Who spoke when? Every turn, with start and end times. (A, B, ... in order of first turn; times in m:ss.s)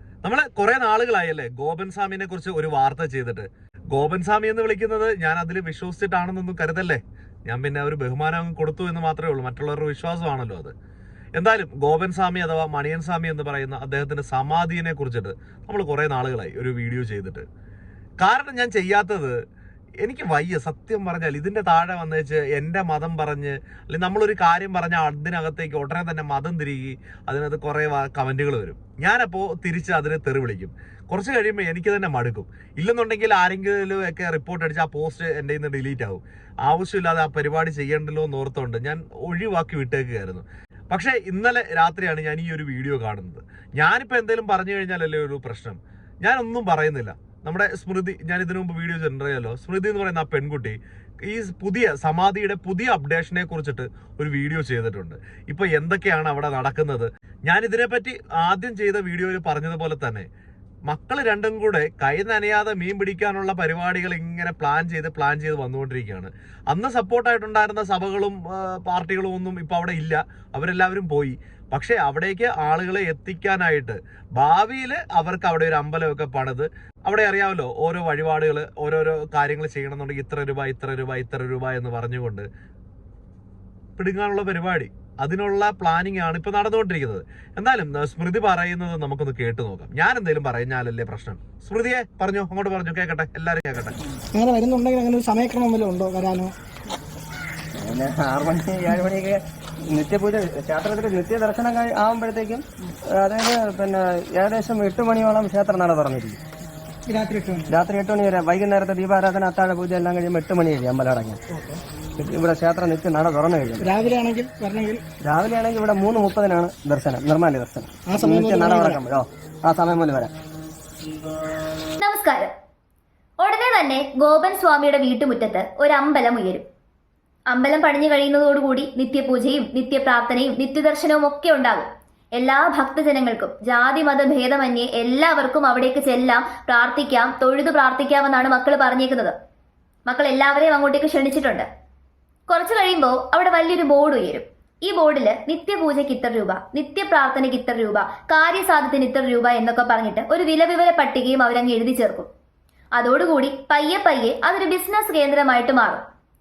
0:00.2-0:10.7 A
0:11.4-0:17.4 A
0:18.2-0:19.4 A
0:20.0-1:00.3 A
1:00.9-1:22.4 A
1:24.0-1:34.0 A
1:34.3-1:36.5 B
1:37.8-1:46.4 C
1:47.1-1:47.7 B
1:47.7-1:51.4 C
1:52.2-1:53.9 C
1:53.8-1:55.0 B
1:55.2-2:00.3 C
1:58.1-1:59.0 B
2:02.0-2:02.5 D
2:03.4-2:06.6 D
2:07.5-2:19.3 D
2:20.1-2:21.7 D
2:22.5-2:32.3 D
2:33.0-2:36.0 D